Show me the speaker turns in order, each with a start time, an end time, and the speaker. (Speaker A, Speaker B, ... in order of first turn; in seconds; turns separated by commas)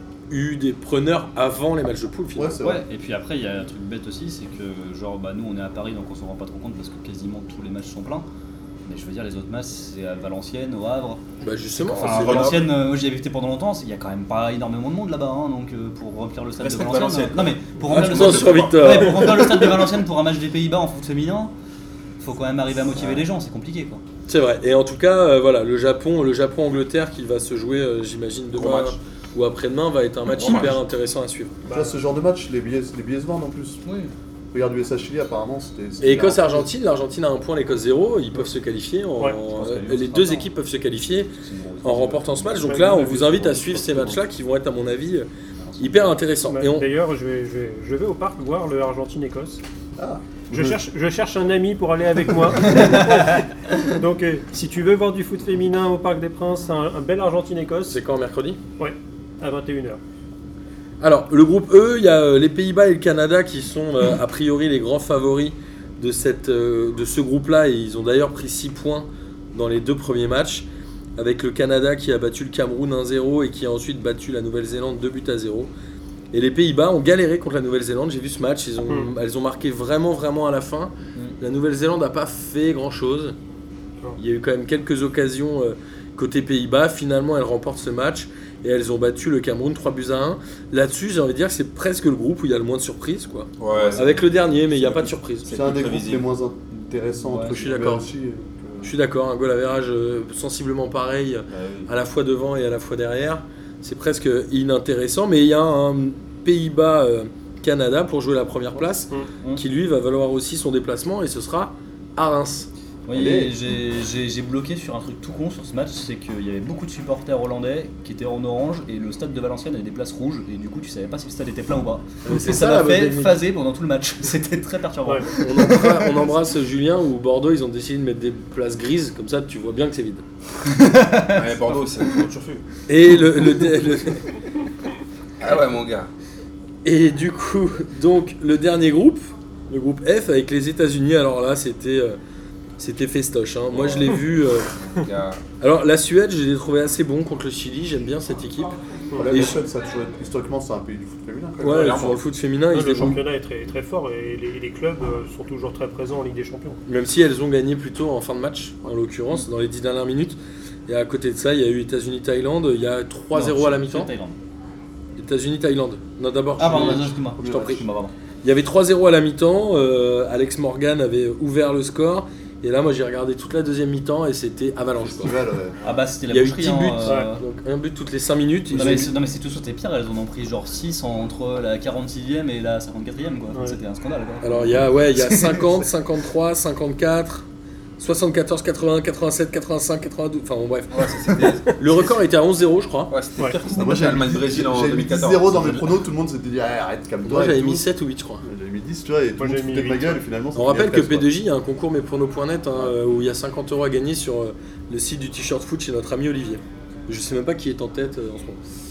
Speaker A: 0.3-2.6, Speaker B: 2.3-2.8, Speaker C: 2.6-8.2, Speaker C: 8.8-11.2, Speaker A: 11.4-12.5, Speaker C: 11.8-21.5, Speaker D: 11.8-12.7, Speaker D: 16.6-19.1, Speaker A: 17.9-19.7, Speaker C: 22.2-24.0, Speaker A: 24.3-31.6, Speaker D: 28.5-29.0, Speaker D: 30.2-30.7, Speaker B: 31.6-33.8, Speaker E: 31.7-32.0, Speaker C: 33.8-34.1, Speaker B: 34.5-36.7, Speaker A: 36.0-45.3, Speaker C: 39.5-40.5, Speaker C: 41.4-44.2, Speaker E: 42.6-43.0, Speaker C: 45.6-45.9, Speaker A: 45.8-46.9, Speaker E: 46.5-49.6, Speaker B: 50.0-50.8, Speaker E: 50.5-58.0, Speaker C: 52.6-53.4, Speaker A: 57.9-58.6, Speaker E: 58.8-60.0, Speaker A: 61.0-75.7, Speaker A: 76.3-83.3, Speaker A: 84.2-95.5, Speaker D: 93.6-96.2, Speaker C: 93.7-94.2, Speaker B: 95.5-98.9, Speaker C: 97.2-97.6, Speaker A: 97.5-98.0, Speaker A: 98.8-112.7, Speaker D: 101.5-101.9, Speaker C: 113.1-126.3, Speaker B: 113.1-113.5, Speaker A: 122.2-123.4, Speaker A: 125.4-130.2, Speaker C: 130.7-131.5, Speaker D: 131.3-132.6, Speaker A: 132.9-134.2, Speaker D: 135.4-136.1, Speaker A: 136.8-142.2, Speaker A: 142.8-144.7, Speaker D: 143.7-145.4, Speaker A: 145.6-148.8, Speaker B: 149.1-152.2, Speaker A: 149.3-149.6, Speaker A: 151.6-153.2, Speaker D: 151.6-152.2, Speaker E: 152.7-156.8, Speaker A: 156.9-160.4, Speaker A: 160.9-164.1, Speaker C: 163.3-164.3, Speaker A: 165.2-167.8, Speaker C: 166.6-168.1, Speaker B: 166.7-167.8, Speaker A: 168.4-175.3, Speaker B: 175.0-175.8, Speaker C: 175.8-177.4, Speaker A: 176.3-179.1, Speaker B: 178.7-179.1, Speaker C: 178.7-185.8, Speaker A: 184.4-187.4, Speaker A: 188.0-193.1, Speaker D: 190.9-192.1, Speaker D: 193.1-195.5, Speaker B: 193.7-197.9, Speaker C: 195.5-196.0, Speaker A: 197.2-198.4, Speaker B: 198.4-201.3, Speaker E: 199.4-200.2, Speaker A: 200.6-208.6